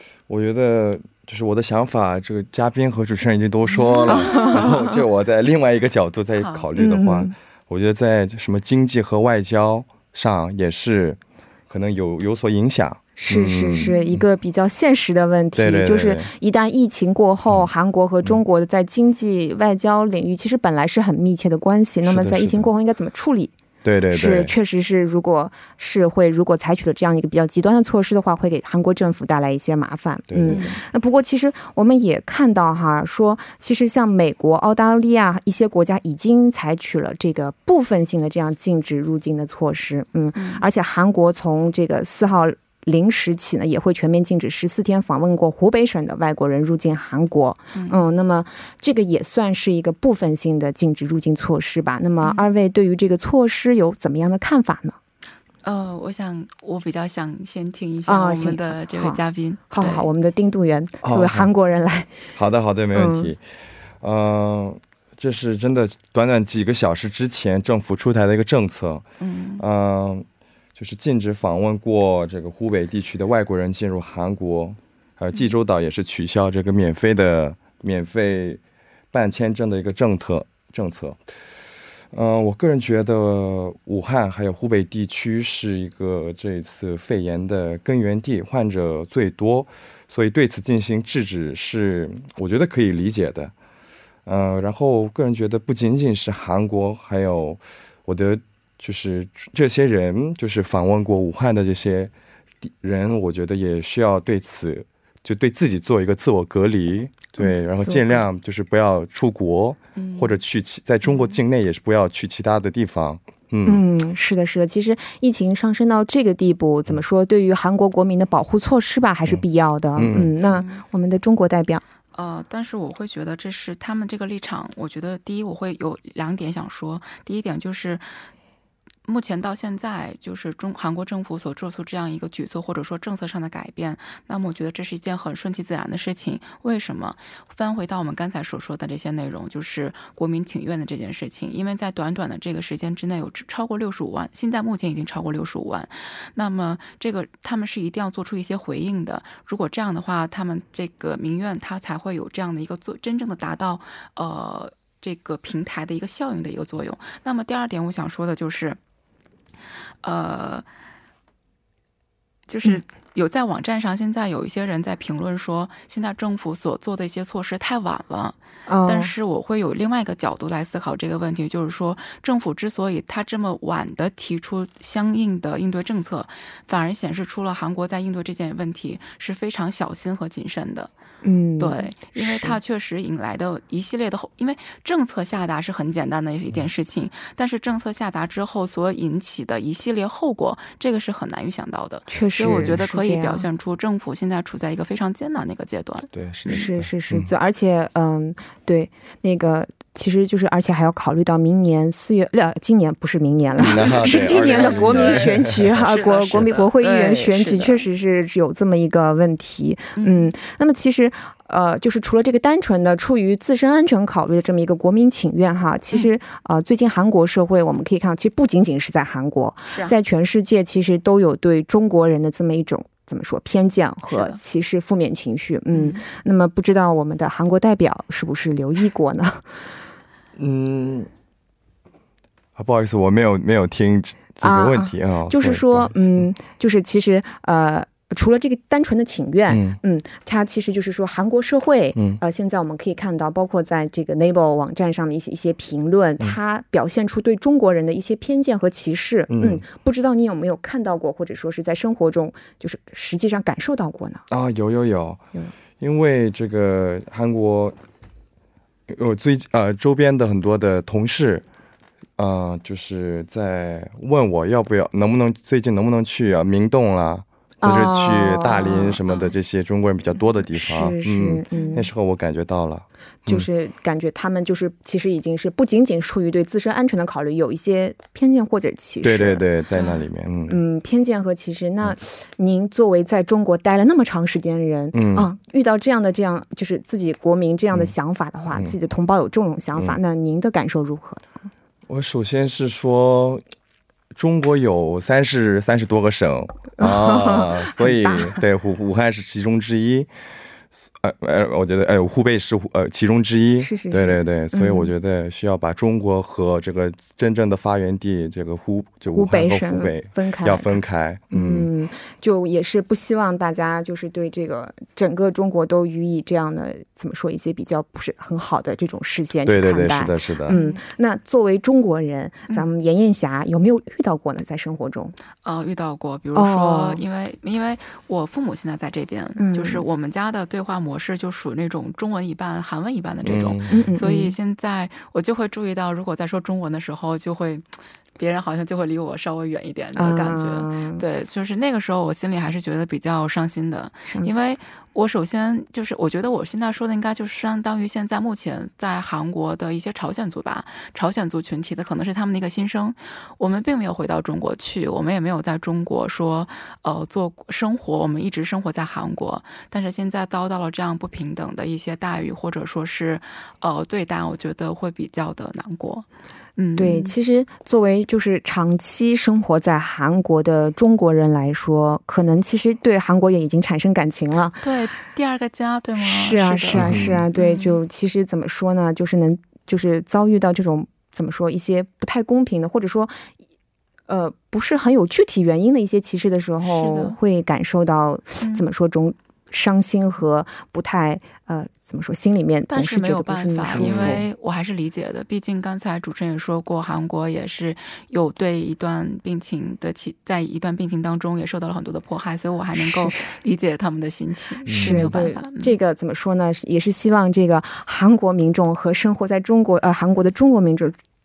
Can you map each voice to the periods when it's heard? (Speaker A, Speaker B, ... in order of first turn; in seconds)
Speaker A: 0.3-13.9, 15.6-16.3, 22.0-22.7, 23.8-24.5, 30.3-30.6, 61.0-61.5, 62.4-63.4, 64.0-69.0, 69.6-70.2, 70.8-78.6, 79.1-81.2, 82.1-93.5, 94.2-102.1, 102.6-113.8, 120.0-120.3, 192.5-192.8, 196.1-197.3, 203.6-205.8, 230.3-231.1, 232.6-236.0, 239.5-239.8, 241.9-242.2, 249.3-249.6, 254.3-255.2, 255.8-257.7, 258.9-261.4, 262.2-273.5, 279.0-280.6, 284.9-285.3, 291.9-293.4, 294.1-300.1, 300.7-311.7, 319.4-320.6, 333.2-333.9, 376.7-377.2, 393.7-394.2, 404.6-405.2
Speaker B: 3.7-4.7, 6.4-6.7, 13.8-14.1, 30.5-30.8, 40.3-40.6, 47.7-48.0, 52.2-52.5, 55.6-60.1, 69.2-69.6, 110.0-110.4, 111.0-111.4, 120.5-120.8, 122.1-128.0, 129.1-158.8, 160.0-160.7, 162.5-180.9, 181.6-196.7, 203.6-207.8, 209.9-210.3, 219.7-219.9, 224.1-224.4, 225.7-226.0, 320.5-320.8, 325.4-337.7, 338.2-366.1, 366.6-367.1, 374.6-377.8, 386.6-387.2, 388.4-388.6, 392.7-405.7
Speaker C: 4.1-5.0, 6.8-7.3, 13.2-23.5, 24.1-55.0, 58.1-59.2, 59.7-62.1, 62.9-63.3, 107.4-108.2, 113.7-121.8, 168.7-169.1, 181.2-182.6, 192.1-193.4, 196.5-229.6, 234.4-254.2, 267.6-269.0, 270.5-271.9, 273.2-279.4, 280.5-291.4, 296.8-298.4, 303.6-304.9, 309.1-325.1, 326.3-327.0, 329.4-329.8, 333.7-334.4, 339.9-341.0, 344.1-344.3, 366.8-374.6, 376.0-383.2, 384.1-394.2, 402.8-403.2, 404.7-411.0